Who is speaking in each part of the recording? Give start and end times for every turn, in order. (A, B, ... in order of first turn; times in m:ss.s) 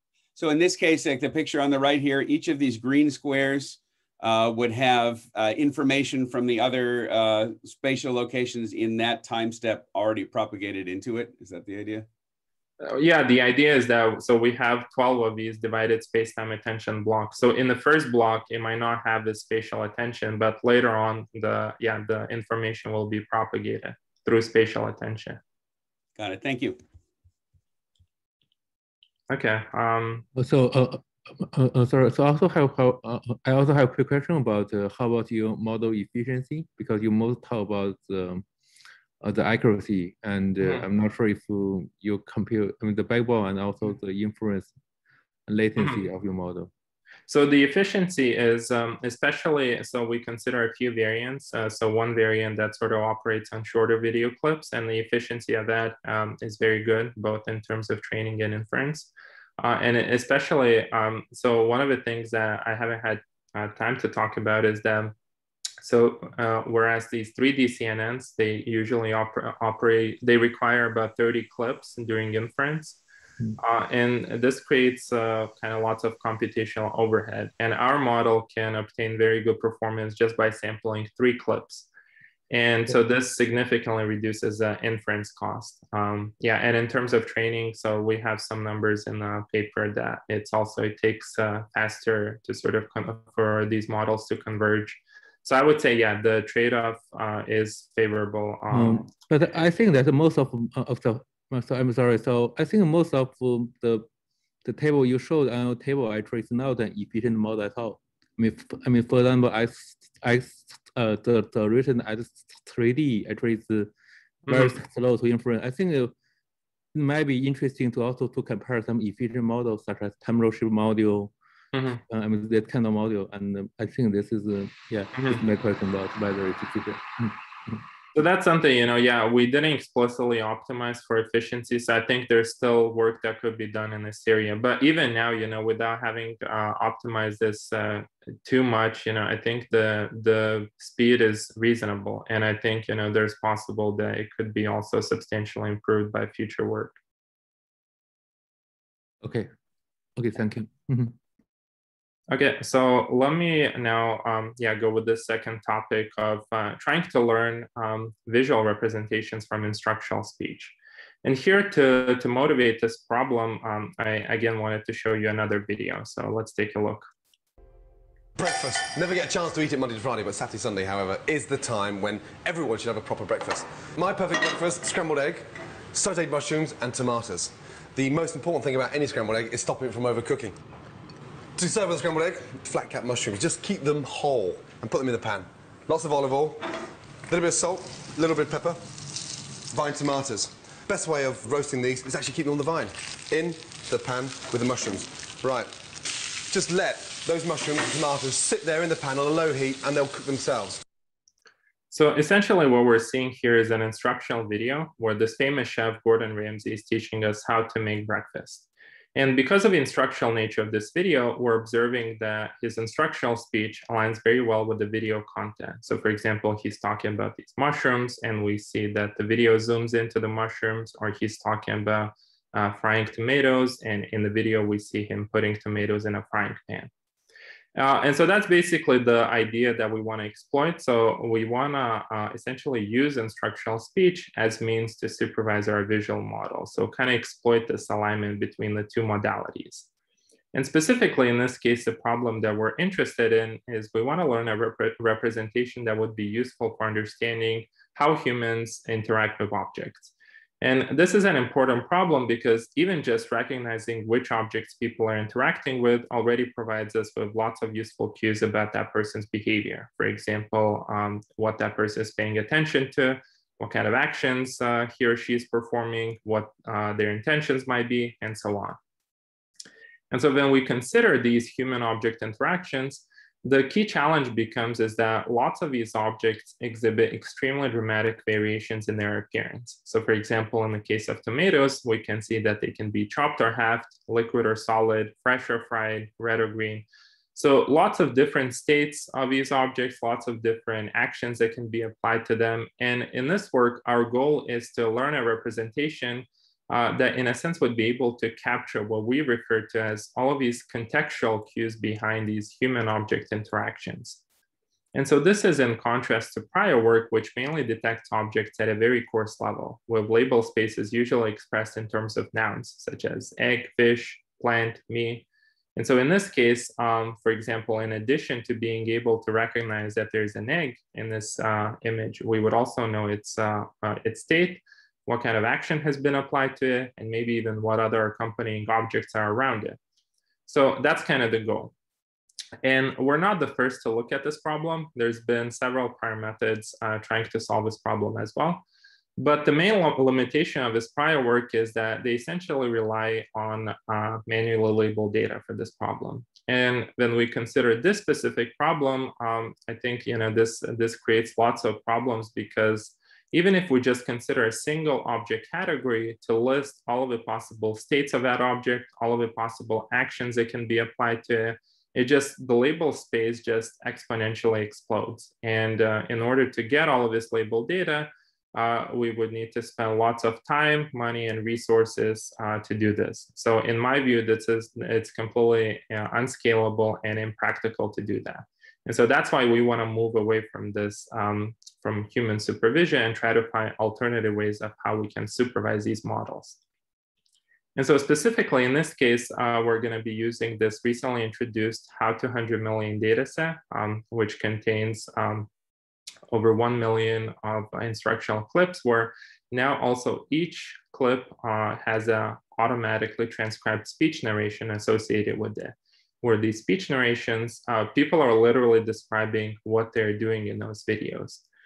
0:00.4-0:12.1 A
0:12.8-0:25.4 B
0:26.2-0:26.8 A
0:29.3-0:30.2 B
0:30.4-0:38.4 C
0:39.2-0:44.7 C
0:40.6-0:40.9 B
0:45.5-0:46.7 C
0:45.8-0:46.0 B
0:47.3-1:05.1 B
1:05.8-1:13.0 B
1:13.6-1:21.9 B
1:22.5-1:39.1 B
1:38.7-1:44.1 C
1:44.6-1:53.9 C
1:54.5-1:54.7 B
1:54.5-1:56.1 C
1:56.9-2:01.3 C
2:01.7-2:02.0 B
2:02.0-2:07.8 C
2:05.1-2:05.4 B
2:08.1-2:27.0 B
2:29.2-2:29.5 C
2:30.2-2:31.2 C
2:32.3-2:47.1 B
2:48.4-3:00.6 D
3:01.6-3:06.7 D
3:07.3-3:08.9 D
3:09.7-3:15.7 D
3:16.4-3:20.8 D
3:21.9-3:46.9 B
3:47.8-3:59.8 B
4:00.5-4:28.8 B
4:30.1-5:04.2 B
5:04.9-5:15.2 B
5:15.8-5:29.8 B
5:30.5-5:31.7 B
5:32.6-5:38.6 B
5:39.2-6:26.6 B
6:27.8-6:35.5 B
6:36.3-6:51.4 B